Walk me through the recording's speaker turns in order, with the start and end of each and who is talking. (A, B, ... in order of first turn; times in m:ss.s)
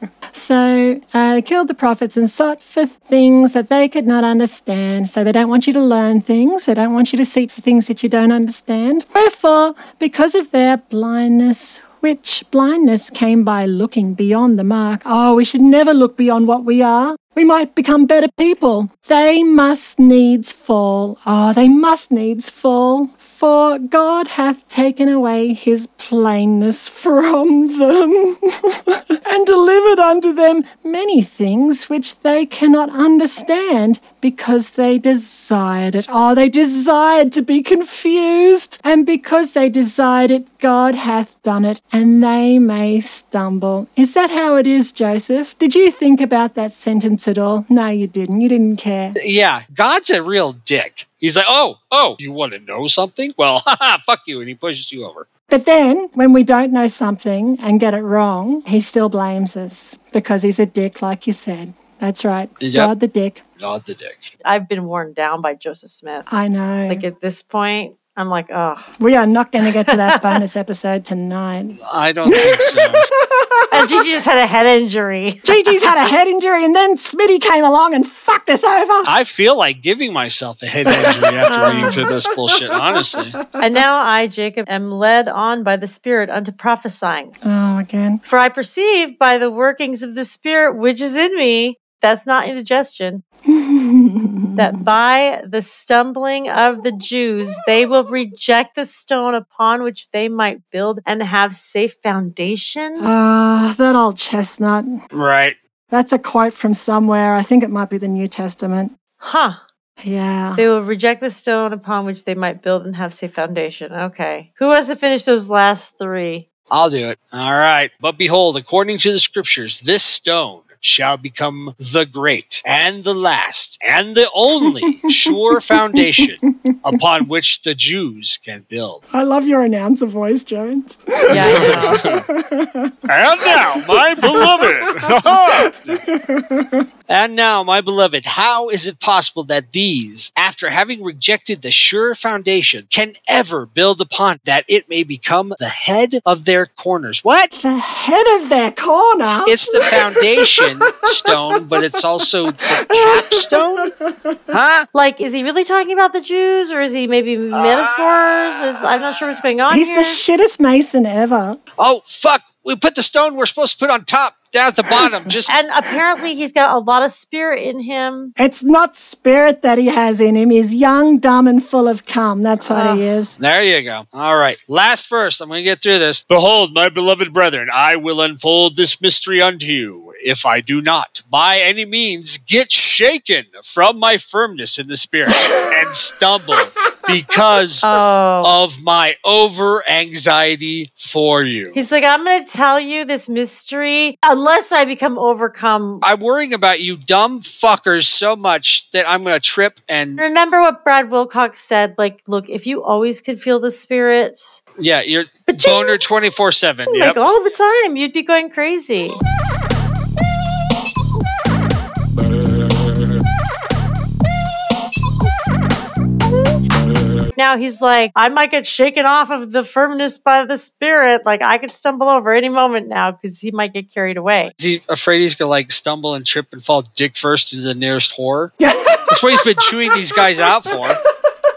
0:00.3-0:49.2 A
0:49.2-0:55.3 B
0:55.5-1:03.4 A
1:02.6-1:02.9 B
1:03.6-1:04.3 B
1:04.4-1:06.3 C
1:06.3-1:07.0 A
1:06.9-1:08.9 C
1:09.0-1:14.0 A
1:09.6-1:10.4 C
1:11.8-1:13.1 B
1:13.7-1:15.9 C
1:15.4-1:19.1 A
1:19.0-1:23.4 B
1:20.8-1:23.1 A
1:21.5-1:22.1 C
1:23.6-1:27.3 C
1:27.4-1:28.2 A
1:28.2-1:33.2 C
1:33.5-1:34.8 A
1:34.6-1:43.1 C
1:43.0-1:45.0 A
1:45.1-1:45.6 B
1:45.9-1:48.9 A
1:49.2-1:49.6 C
1:50.0-1:50.6 A
1:50.6-1:56.4 C
1:56.7-2:09.0 B
2:04.6-2:07.0 A
2:09.1-2:16.8 A
2:11.3-2:12.0 C
2:11.3-2:12.2 B
2:13.1-2:16.0 B
2:17.1-2:27.5 B
2:27.6-2:31.3 A
2:29.4-2:33.9 B
2:32.6-2:34.6 A
2:34.5-2:34.9 B
2:34.9-2:40.2 C
2:37.5-2:39.4 B
2:39.7-2:41.6 A
2:41.8-2:45.5 B
2:44.9-2:45.4 A
2:45.5-2:48.3 C
2:48.4-2:53.4 A
2:52.7-2:53.1 C
2:53.4-3:07.9 B
3:07.8-3:08.5 C
3:08.4-3:11.8 B
3:11.7-3:16.0 C
3:16.0-3:20.2 B
3:20.2-3:24.6 C
3:24.8-3:27.2 B
3:25.5-3:26.0 C
3:26.9-3:29.2 C
3:37.3-3:44.5 C
3:44.6-3:48.6 B
3:48.6-3:50.8 A
3:49.1-3:51.0 B